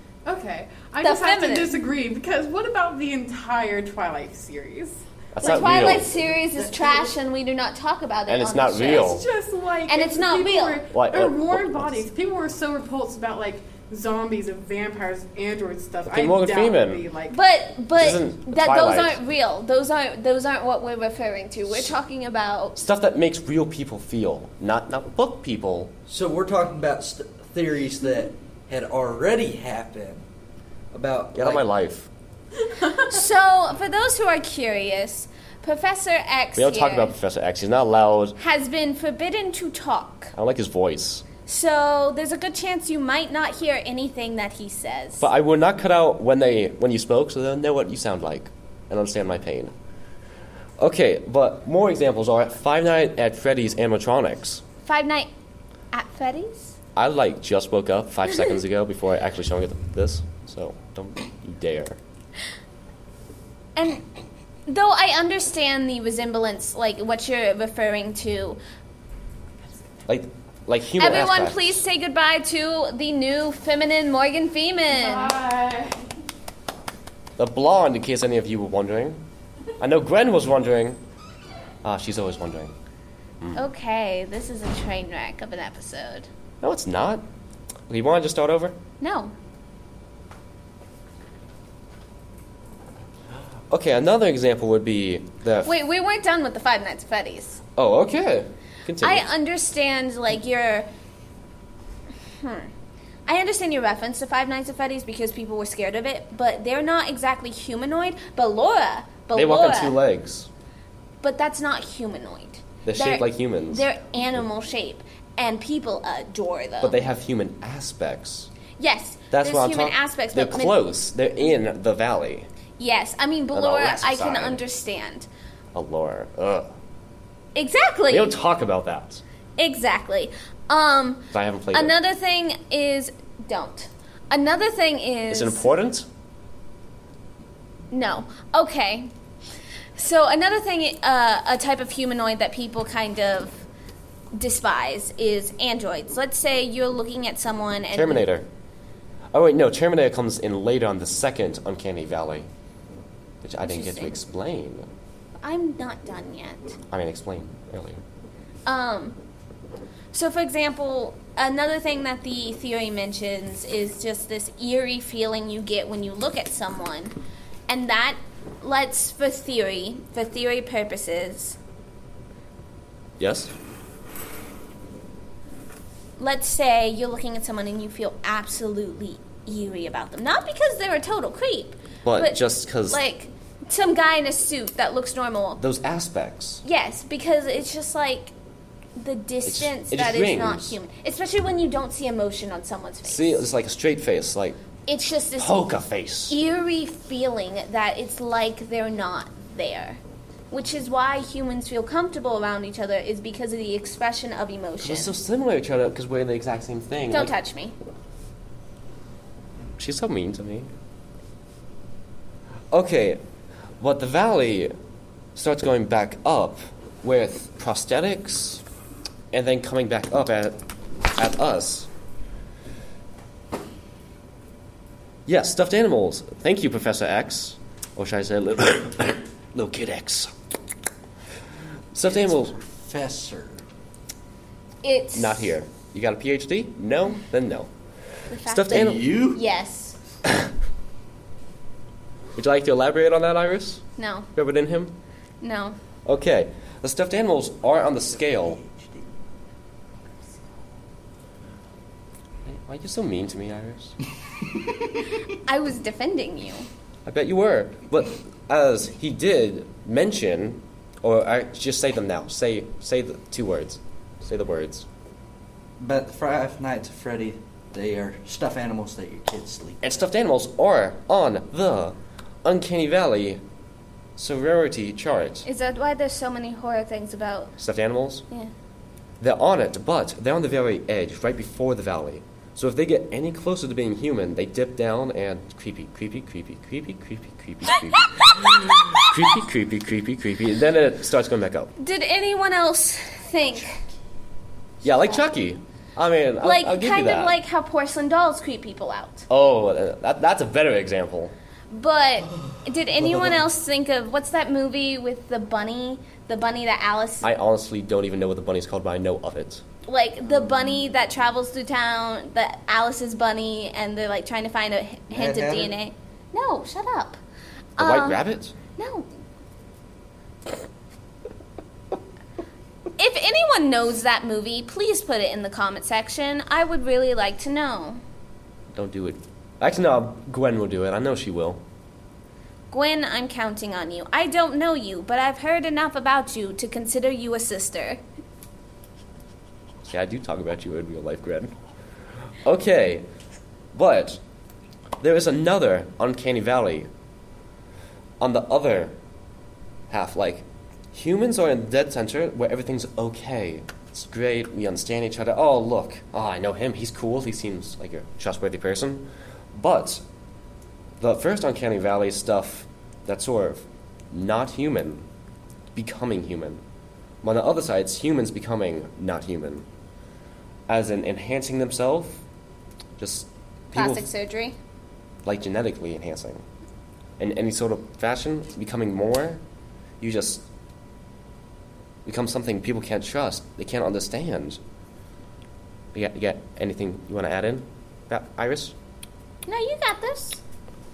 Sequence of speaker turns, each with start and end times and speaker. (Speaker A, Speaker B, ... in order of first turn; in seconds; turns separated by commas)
Speaker A: 0.2-7.1, Speaker B: 1.0-1.7, Speaker C: 5.3-6.1, Speaker B: 5.4-9.1, Speaker C: 8.3-9.2, Speaker A: 8.9-17.4, Speaker B: 9.9-10.8, Speaker C: 10.9-12.0, Speaker C: 16.1-17.0, Speaker B: 17.3-22.8, Speaker C: 17.9-19.2, Speaker C: 21.7-21.9, Speaker C: 22.8-25.9, Speaker D: 26.1-30.2, Speaker D: 30.9-31.6, Speaker C: 31.3-32.1, Speaker B: 32.8-37.1, Speaker C: 36.5-38.4, Speaker B: 38.4-40.3, Speaker C: 40.3-41.2, Speaker B: 41.4-45.2, Speaker C: 45.2-49.7, Speaker C: 50.8-54.6, Speaker B: 54.8-55.3, Speaker B: 55.9-56.8, Speaker C: 57.0-62.0, Speaker B: 63.8-64.0, Speaker B: 64.7-68.6, Speaker C: 70.0-71.8, Speaker B: 71.0-75.3, Speaker A: 74.9-76.1, Speaker C: 77.4-79.2, Speaker C: 79.8-81.0, Speaker C: 81.8-82.7, Speaker B: 83.5-86.3, Speaker C: 86.6-87.2, Speaker C: 87.9-88.8, Speaker B: 89.0-89.3, Speaker C: 93.7-95.7, Speaker B: 95.6-97.6, Speaker C: 97.8-99.2, Speaker B: 99.0-100.9, Speaker B: 102.4-102.7, Speaker B: 103.2-110.0, Speaker C: 109.3-110.5, Speaker B: 111.2-117.0, Speaker C: 112.8-113.9, Speaker C: 116.8-118.5, Speaker B: 118.8-120.8, Speaker C: 119.3-122.5, Speaker B: 122.8-125.3, Speaker C: 123.5-124.6, Speaker C: 125.7-126.7, Speaker B: 127.5-128.3, Speaker C: 128.1-129.2, Speaker B: 129.6-135.7, Speaker C: 131.3-131.9, Speaker C: 135.3-136.1, Speaker B: 137.9-139.1, Speaker B: 139.9-143.6, Speaker B: 144.3-148.3, Speaker C: 147.9-148.5, Speaker C: 149.3-152.5, Speaker C: 153.4-154.9, Speaker B: 153.6-154.2, Speaker B: 155.4-156.8, Speaker C: 156.9-158.0, Speaker B: 158.7-159.2, Speaker B: 160.1-167.1, Speaker B: 167.7-171.6, Speaker C: 173.2-173.5, Speaker B: 176.2-185.6, Speaker C: 182.0-183.0, Speaker C: 185.6-186.6, Speaker B: 186.6-188.3, Speaker B: 189.0-193.4, Speaker C: 189.4-190.8, Speaker C: 193.0-194.6, Speaker B: 194.8-195.6, Speaker C: 195.4-196.3, Speaker B: 196.3-205.2, Speaker C: 204.8-207.3, Speaker B: 207.1-207.7, Speaker C: 209.8-210.7, Speaker C: 212.7-213.2, Speaker C: 213.8-214.7, Speaker C: 215.3-218.6, Speaker C: 219.3-220.6, Speaker C: 221.2-221.9, Speaker C: 225.2-230.3, Speaker C: 231.9-232.6, Speaker D: 232.0-233.6, Speaker B: 234.8-235.6, Speaker C: 235.1-237.7, Speaker B: 238.3-240.0, Speaker C: 238.3-239.0, Speaker D: 238.7-239.4, Speaker C: 242.3-243.8, Speaker B: 244.0-244.3, Speaker C: 244.3-245.0, Speaker B: 245.4-245.8, Speaker C: 246.1-248.6, Speaker D: 248.3-248.9, Speaker C: 252.4-253.9, Speaker B: 255.2-256.7, Speaker C: 257.1-264.9, Speaker D: 265.8-269.8, Speaker C: 269.8-273.4, Speaker C: 274.2-275.4, Speaker B: 275.4-277.5, Speaker C: 277.6-278.2, Speaker C: 279.2-291.7, Speaker B: 291.8-293.8, Speaker C: 294.8-297.4, Speaker B: 296.4-299.2, Speaker C: 299.3-301.3, Speaker B: 301.7-307.3, Speaker C: 307.2-309.6, Speaker B: 309.8-317.2, Speaker D: 315.1-315.7, Speaker B: 317.8-319.1, Speaker C: 317.8-318.5, Speaker B: 323.0-328.0, Speaker C: 328.7-331.6, Speaker B: 332.7-338.0, Speaker C: 339.9-341.5, Speaker C: 342.4-343.1, Speaker C: 343.7-344.2, Speaker C: 345.0-346.9, Speaker C: 348.2-348.9, Speaker C: 349.9-360.0, Speaker C: 361.0-365.1, Speaker C: 365.7-366.6, Speaker C: 367.2-369.6, Speaker C: 370.7-372.2, Speaker C: 373.0-374.1, Speaker B: 373.7-374.6, Speaker C: 375.2-376.4, Speaker C: 377.2-379.4, Speaker C: 380.0-380.4, Speaker C: 382.1-384.6, Speaker C: 385.9-388.7, Speaker B: 389.4-390.4